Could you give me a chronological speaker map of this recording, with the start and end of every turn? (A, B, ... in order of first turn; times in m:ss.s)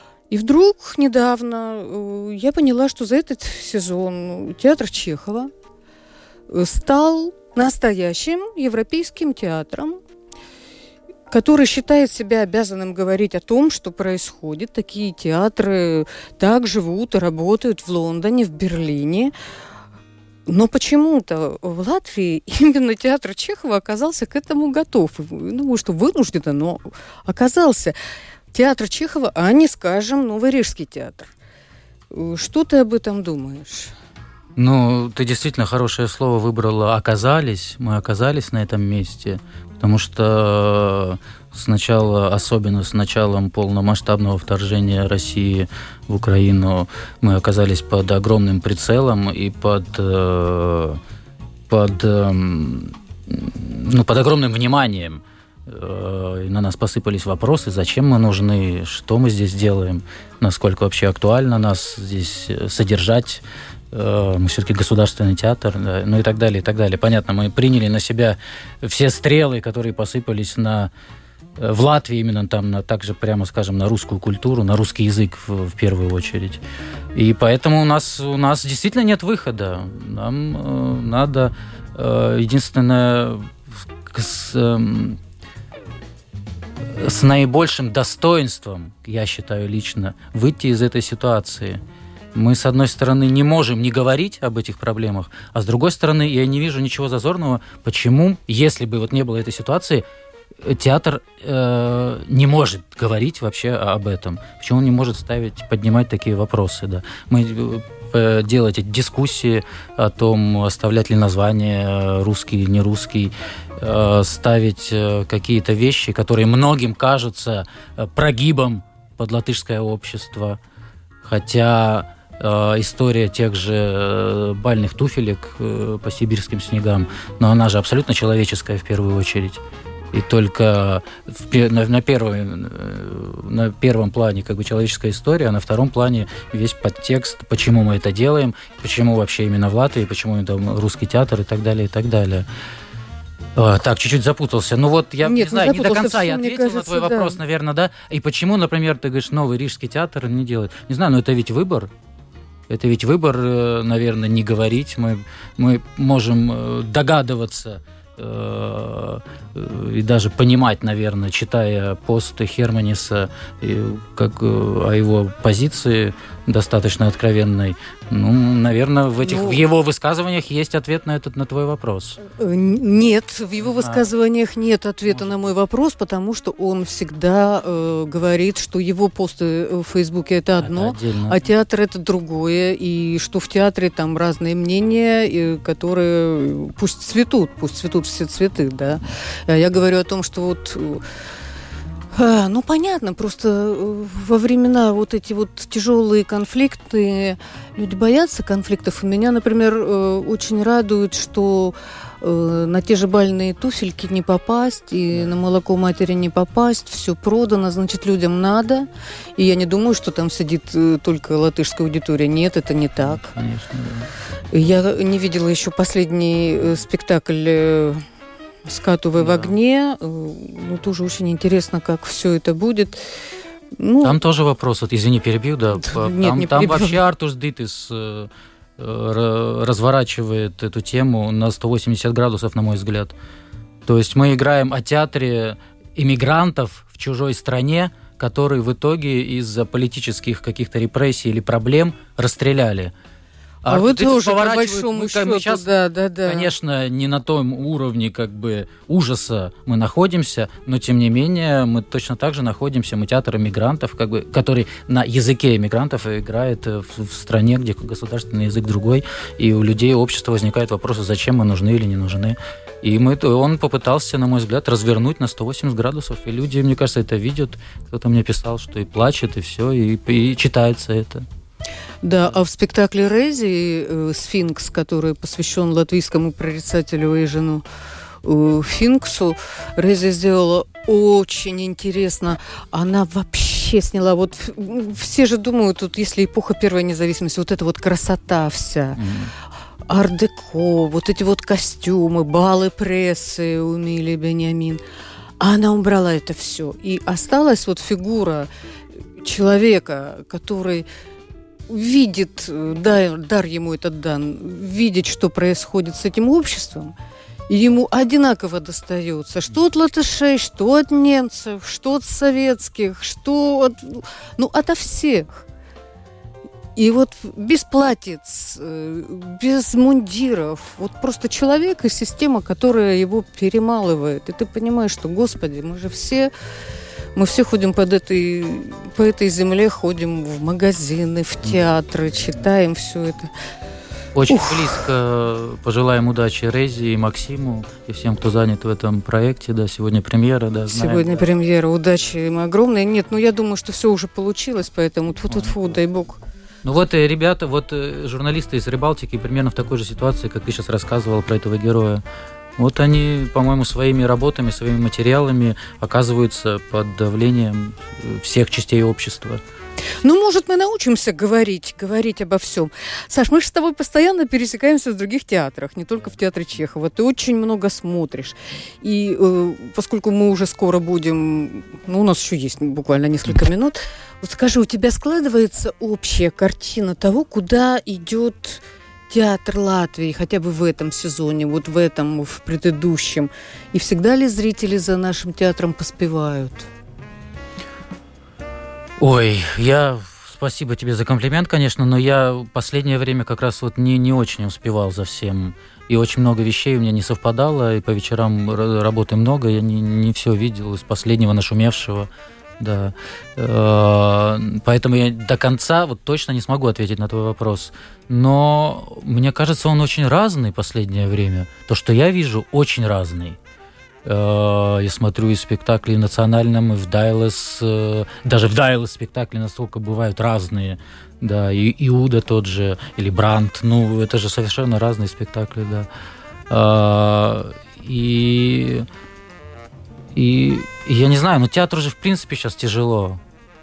0:00.3-0:05.5 A
0:06.5-0:10.0 A
0:11.3-0:19.3 A
0:20.4-0:27.9 A
0:28.5-0:31.3 A
0:32.1-0:33.9 A
0:34.6-0:51.0 B
0:51.7-1:10.9 B
1:11.6-1:16.6 B
1:17.1-1:23.5 B
1:24.1-1:25.2 B
1:26.9-1:31.8 B
1:32.3-1:40.0 B
1:40.6-2:00.6 B
2:01.2-2:09.6 B
2:10.1-2:22.4 B
2:23.6-2:31.9 B
2:25.2-2:27.4 A
2:32.7-2:52.2 B
2:49.2-2:49.6 A
2:52.2-3:11.0 A
2:53.6-2:54.1 B
2:55.0-2:55.3 B
3:00.6-3:01.4 B
3:12.1-3:33.3 A
3:33.0-3:34.1 B
3:34.5-3:38.0 A
3:38.6-3:43.0 A
3:39.2-3:39.6 B
3:43.8-3:44.2 A
3:44.0-3:53.1 B
3:45.8-3:47.0 A
3:53.8-4:02.9 B
4:03.6-4:05.7 B
4:03.6-4:06.5 A
4:06.2-4:31.2 B
4:32.0-4:37.6 A
4:38.2-4:49.0 A
4:49.0-4:49.3 B
4:49.9-4:54.8 A
4:55.4-4:58.5 A
4:59.2-5:00.9 A
5:01.7-5:06.9 A
5:07.5-5:15.4 A
5:16.8-5:26.3 A
5:27.2-5:33.3 A
5:34.1-5:41.2 B
5:34.3-5:34.8 A
5:40.7-5:46.2 A
5:45.3-5:45.6 B
5:46.6-5:52.0 B
5:52.6-5:59.4 B
6:00.0-6:26.7 A
6:29.0-6:53.4 B
6:54.0-7:05.9 B
7:06.5-7:08.8 B
7:10.1-7:13.2 B